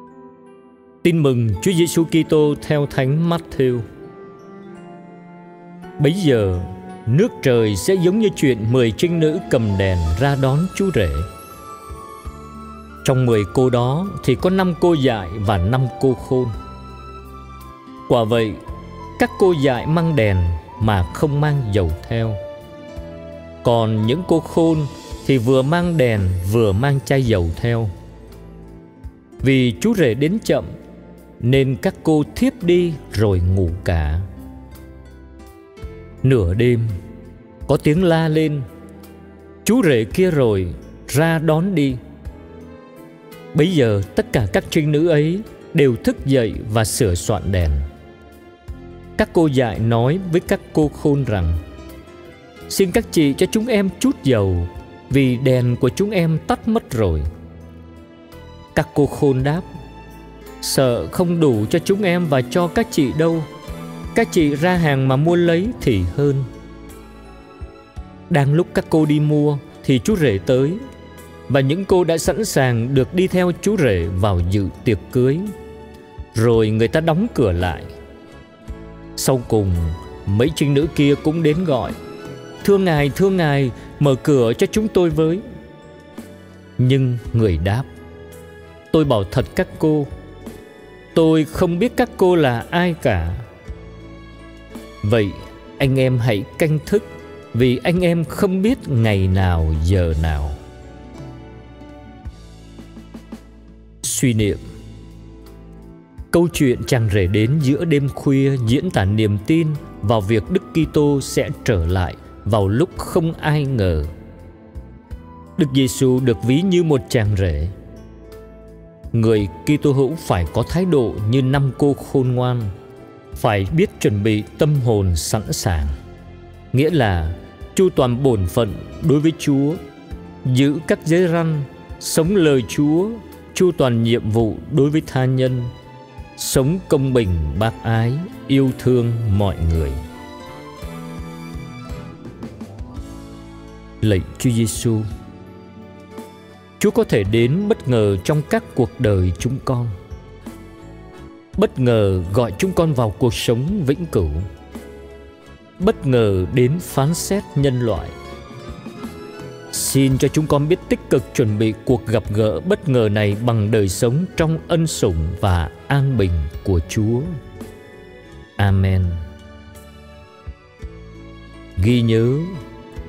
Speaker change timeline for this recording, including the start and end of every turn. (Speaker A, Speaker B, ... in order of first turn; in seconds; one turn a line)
Speaker A: 1.0-3.9
Speaker A: 6.0-11.3
Speaker A: 13.0-16.5
Speaker A: 18.1-18.6
Speaker A: 19.2-22.4
Speaker A: 23.6-27.9
Speaker A: 29.4-30.7
Speaker A: 31.4-34.2
Speaker A: 36.2-36.9
Speaker A: 37.7-38.6
Speaker A: 39.6-42.0
Speaker A: 43.5-47.9
Speaker A: 49.2-51.6
Speaker A: 52.7-57.3
Speaker A: 58.8-59.6
Speaker A: 60.6-63.5
Speaker A: 64.1-66.5
Speaker A: 68.3-70.8
Speaker A: 71.5-75.5
Speaker A: 76.3-77.9
Speaker A: 79.2-82.0
Speaker A: 82.6-85.4
Speaker A: 86.8-87.9
Speaker A: 88.9-90.1
Speaker A: 91.1-93.4
Speaker A: 95.0-100.6
Speaker A: 104.0-104.6
Speaker A: 106.3-114.1
Speaker A: 115.6-117.7
Speaker A: 119.1-122.7
Speaker A: 123.4-126.0
Speaker A: 126.7-129.8
Speaker A: 130.4-135.7
Speaker A: 136.4-140.0
Speaker A: 144.0-145.1
Speaker A: 146.8-149.9
Speaker A: 151.6-154.5
Speaker A: 155.8-158.1
Speaker A: 159.7-167.3
Speaker A: 168.6-169.2
Speaker A: 171.8-172.5